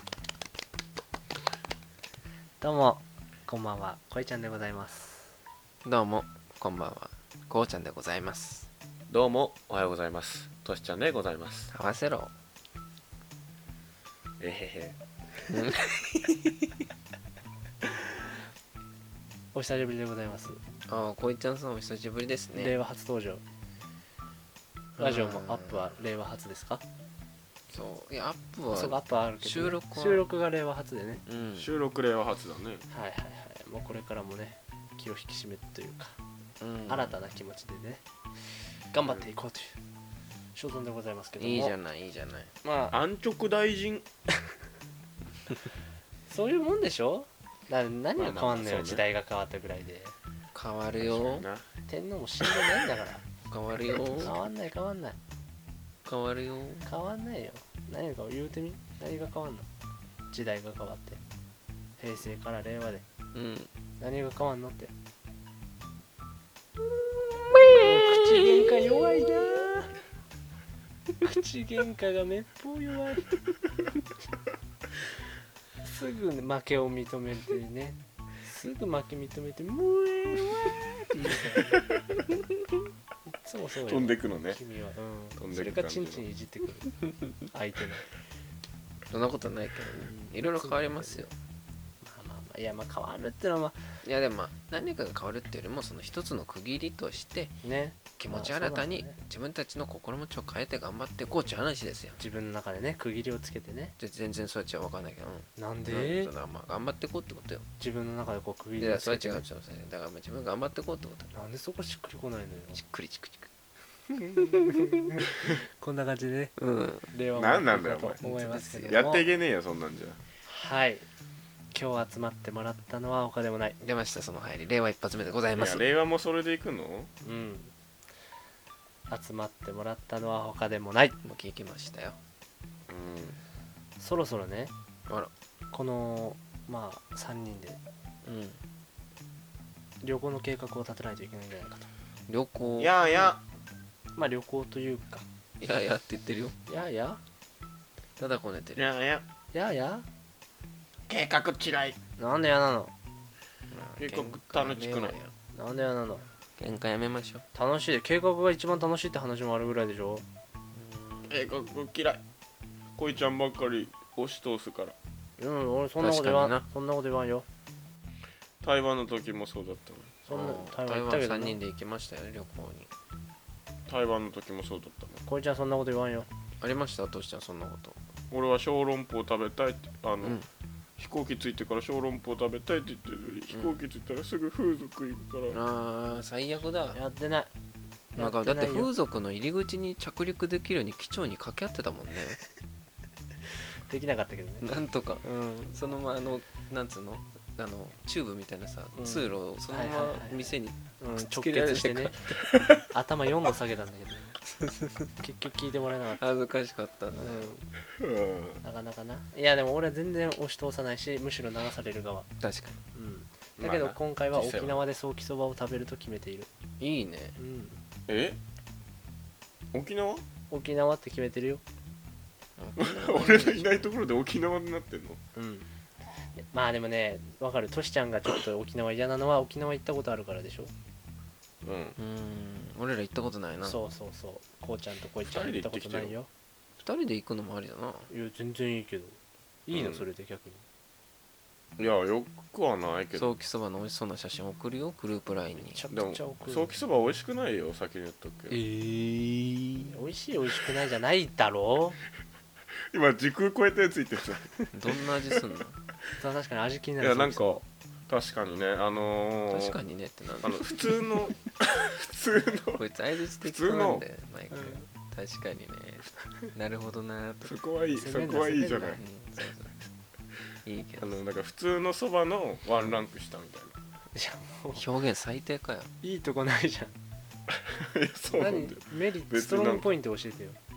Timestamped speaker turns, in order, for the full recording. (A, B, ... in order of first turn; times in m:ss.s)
0:02.6-0:05.3 A
0:05.8-0:08.7 B
0:09.1-0:11.7 C
0:11.7-0:12.3 B
0:14.4-0:15.0 C
0:15.5-0:16.8 B
0:19.5-0:20.6 A
0:20.8-0:22.7 B
0:22.6-0:23.4 A
0:25.0-0:25.9 B
0:25.0-0:26.8 A
0:27.7-0:30.2 B
0:28.7-0:31.2 A
0:31.3-0:31.7 B
0:31.6-0:32.8 C
0:32.9-0:36.2 A
0:36.6-0:37.2 B
0:36.9-0:38.0 A
0:38.9-0:39.8 A
0:40.6-0:41.8 A
0:41.4-0:42.5 B
0:42.6-0:43.0 A
0:42.9-0:44.0 C
0:46.3-0:50.1 A
0:48.2-0:49.0 C
0:50.5-0:51.4 B
0:51.0-0:51.7 C
0:51.9-0:53.2 A
0:53.5-0:54.4 B
0:54.1-0:55.2 A
0:56.0-0:56.9 B
0:56.8-0:59.7 A
1:00.3-1:01.2 A
1:02.0-1:03.0 A
1:03.3-1:03.7 B
1:04.0-1:04.9 A
1:07.5-1:09.9 A
1:07.7-1:09.3 B
1:11.2-1:13.4 A
1:15.8-1:21.8 A
1:23.3-1:28.1 A
1:23.8-1:24.6 C
1:25.4-1:26.2 C
1:29.1-1:31.3 B
1:30.1-1:31.3 A
1:32.0-1:33.8 A
1:34.0-1:37.6 B
1:37.6-1:39.2 A
1:38.2-1:42.2 B
1:42.2-1:44.0 A
1:44.0-1:47.7 B
1:45.6-1:46.3 A
1:47.8-1:49.4 A
1:48.8-1:51.3 B
1:51.3-1:52.8 A
1:52.7-1:53.5 B
1:54.3-1:56.6 A
1:54.3-1:55.0 B
1:56.6-1:57.1 B
1:57.1-1:59.3 A
1:57.3-2:00.2 C
1:58.2-1:58.9 B
2:00.5-2:01.1 A
2:01.7-2:03.8 A
2:03.8-2:05.8 B
2:05.6-2:07.1 C
2:07.2-2:07.7 A
2:09.1-2:11.2 A
2:11.2-2:12.2 B
2:12.9-2:13.4 C
2:14.0-2:14.7 A
2:15.7-2:17.8 A
2:18.2-2:18.6 B
2:20.0-2:21.9 A
2:22.3-2:23.3 B
2:22.8-2:23.4 C
2:24.1-2:25.2 A
2:25.6-2:26.6 B
2:26.7-2:27.2 A
2:28.2-2:28.9 B
2:28.8-2:29.2 C
2:29.5-2:30.0 A
2:31.1-2:32.0 C
2:32.2-2:32.9 A
2:33.7-2:35.3 B
2:34.0-2:35.2 C
2:35.5-2:36.2 A
2:36.6-2:37.4 B
2:37.5-2:40.2 A
2:40.8-2:41.3 B
2:41.3-2:42.2 C
2:43.0-2:44.9 C
2:45.4-2:47.4 A
2:46.0-2:46.6 B
2:48.6-2:50.1 C
2:50.2-2:51.6 A
2:50.3-2:52.9 B
2:53.9-2:55.2 C
2:55.3-2:56.3 A
2:56.6-2:58.0 B
2:58.3-3:00.4 C
3:00.2-3:00.5 B
3:01.0-3:05.6 C
3:03.5-3:03.8 B
3:05.5-3:07.0 B
3:06.9-3:07.5 A
3:08.1-3:08.9 A
3:08.2-3:12.4 B
3:13.9-3:14.7 A
3:14.6-3:22.5 B
3:15.2-3:15.8 A
3:18.9-3:22.2 A
3:22.9-3:24.4 A
3:24.4-3:25.1 B
3:25.2-3:26.2 A
3:26.2-3:27.5 B
3:27.2-3:27.7 A
3:28.0-3:28.6 C
3:28.6-3:32.3 A
3:32.4-3:32.8 B
3:32.9-3:36.5 A
3:33.6-3:34.9 C
3:36.8-3:37.4 B
3:37.4-3:37.8 A
3:38.1-3:38.4 C
3:39.7-3:40.2 C
3:40.5-3:41.6 A
3:42.6-3:43.9 B
3:42.8-3:45.2 C
3:45.3-3:45.7 A
3:46.4-3:50.7 A
3:51.6-3:52.0 C
3:52.0-3:53.8 B
3:53.6-3:56.3 A
3:55.3-3:56.1 C
3:56.8-3:58.1 B
3:58.1-4:00.6 A
3:59.7-4:00.0 C
4:01.8-4:03.4 C
4:03.1-4:05.8 B
4:05.6-4:06.7 A
4:05.9-4:08.6 C
4:08.6-4:09.9 B
4:09.9-4:12.0 A
4:12.9-4:15.4 C
4:14.7-4:15.8 B
4:16.2-4:17.6 A
4:17.0-4:19.8 C
4:19.5-4:21.1 B
4:20.4-4:22.8 C
4:22.7-4:27.5 B
4:23.4-4:24.0 C
4:24.5-4:24.8 A
4:27.4-4:29.0 C
4:28.0-4:29.0 A
4:28.9-4:29.8 B
4:30.6-4:31.2 B
4:31.0-4:33.8 C
4:34.1-4:34.9 A
4:34.7-4:35.9 B
4:36.0-4:36.9 A
4:37.5-4:39.9 C
4:38.3-4:40.6 A